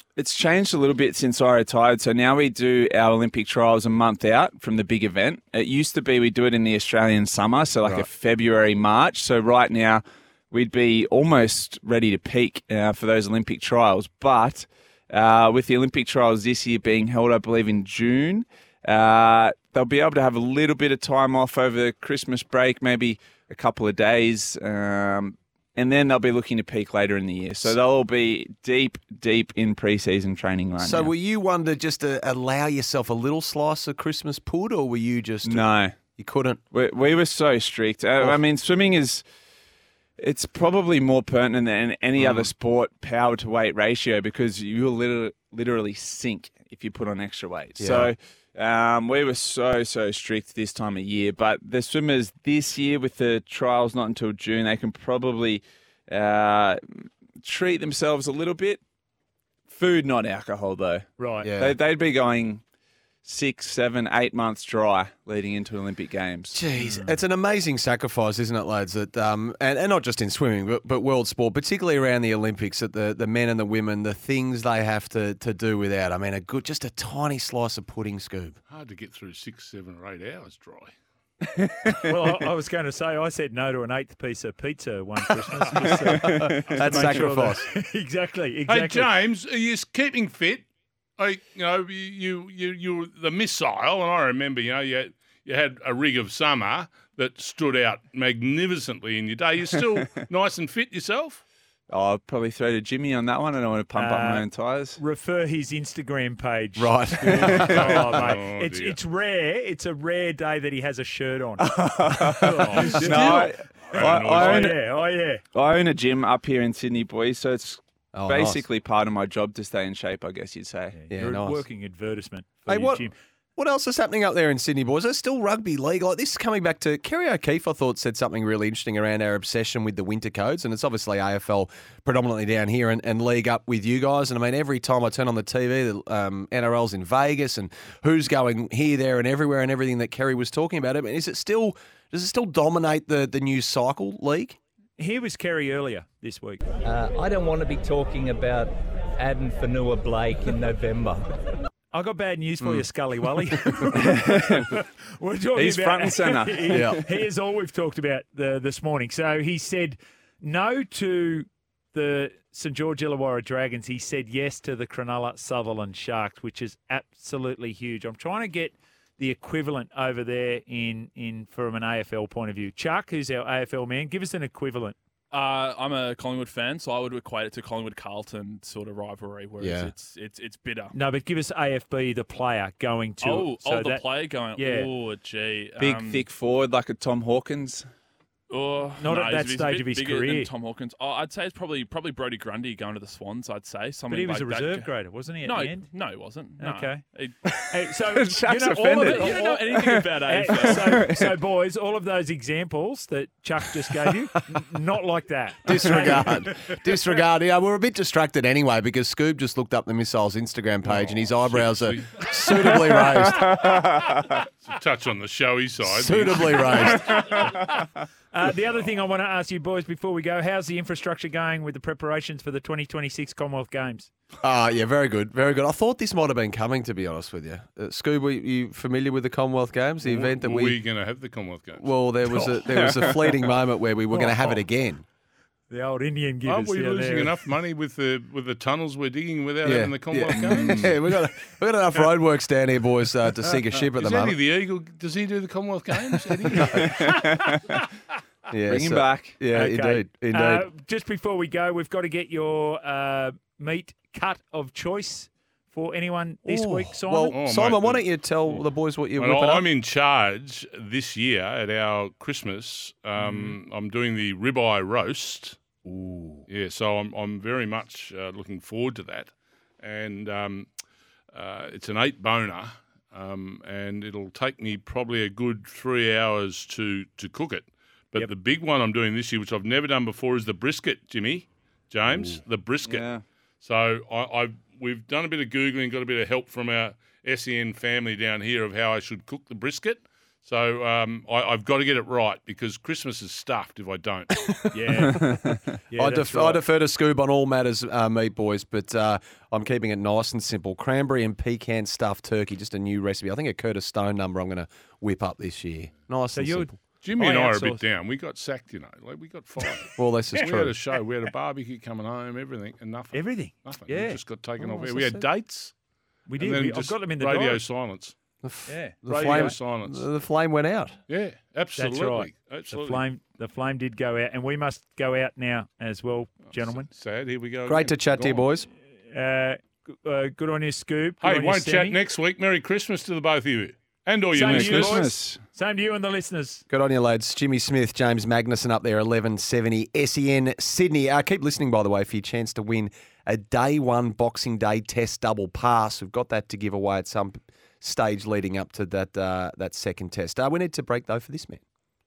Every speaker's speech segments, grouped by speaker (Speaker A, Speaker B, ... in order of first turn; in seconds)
Speaker A: 0.2-31.1, 35.4-36.0, 36.7-39.2, 40.2-58.8, 59.7-62.6, 63.2-66.6, 86.8-87.1, 101.9-105.0, 107.4-107.8, 111.6-114.8, 115.5-121.0, 153.9-154.7, 155.6-157.1, 185.8-187.9, 197.5-201.4, 232.8-233.4, 246.7-247.8, 248.7-249.4, 282.9-283.2, 334.4-335.4
Speaker B: 30.8-36.6, 42.2-42.5, 47.8-48.1, 61.4-61.8, 66.5-78.6, 86.2-87.7, 106.8-108.3, 118.1-118.7, 121.1-121.7, 122.7-144.6, 152.6-152.9, 156.7-157.0, 179.6-179.9, 205.7-213.8, 215.8-217.2, 224.4-230.8, 231.8-235.0, 239.7-244.4, 248.5-250.7, 256.4-259.7, 294.5-295.1, 295.9-306.8, 310.0-310.8, 318.4-321.0, 327.6-328.7, 336.7-351.6
Speaker C: 61.2-61.5, 66.8-67.2, 81.9-89.1, 103.9-111.7, 112.4-113.4, 114.0-115.4, 121.0-123.2, 145.0-146.6, 151.9-175.0, 180.9-184.9, 189.0-190.5, 194.1-195.9, 196.6-197.0, 197.7-206.7, 216.8-217.8, 218.3-224.1, 234.1-234.6, 235.7-237.4, 249.5-257.4, 265.9-266.4, 294.7-296.6, 306.3-307.8, 313.1-315.3, 316.3-317.6, 318.7-319.6, 321.8-326.9, 329.1-332.0, 334.3-336.6
Speaker D: 78.7-80.9, 88.7-90.7, 91.2-101.4, 107.3-109.0, 112.5-114.8, 210.8-217.3, 230.0-231.9, 236.4-241.1, 243.9-247.4, 257.3-258.7, 259.2-265.6, 266.5-270.7, 271.3-283.1, 283.6-294.4, 307.0-315.7, 316.4-318.2, 319.1-320.1, 321.1-323.0, 326.6-328.5, 331.2-335.1
Speaker E: 146.8-148.6, 149.2-151.2
Speaker F: 175.3-181.0, 183.2-186.3, 188.5-197.4, 198.9-201.1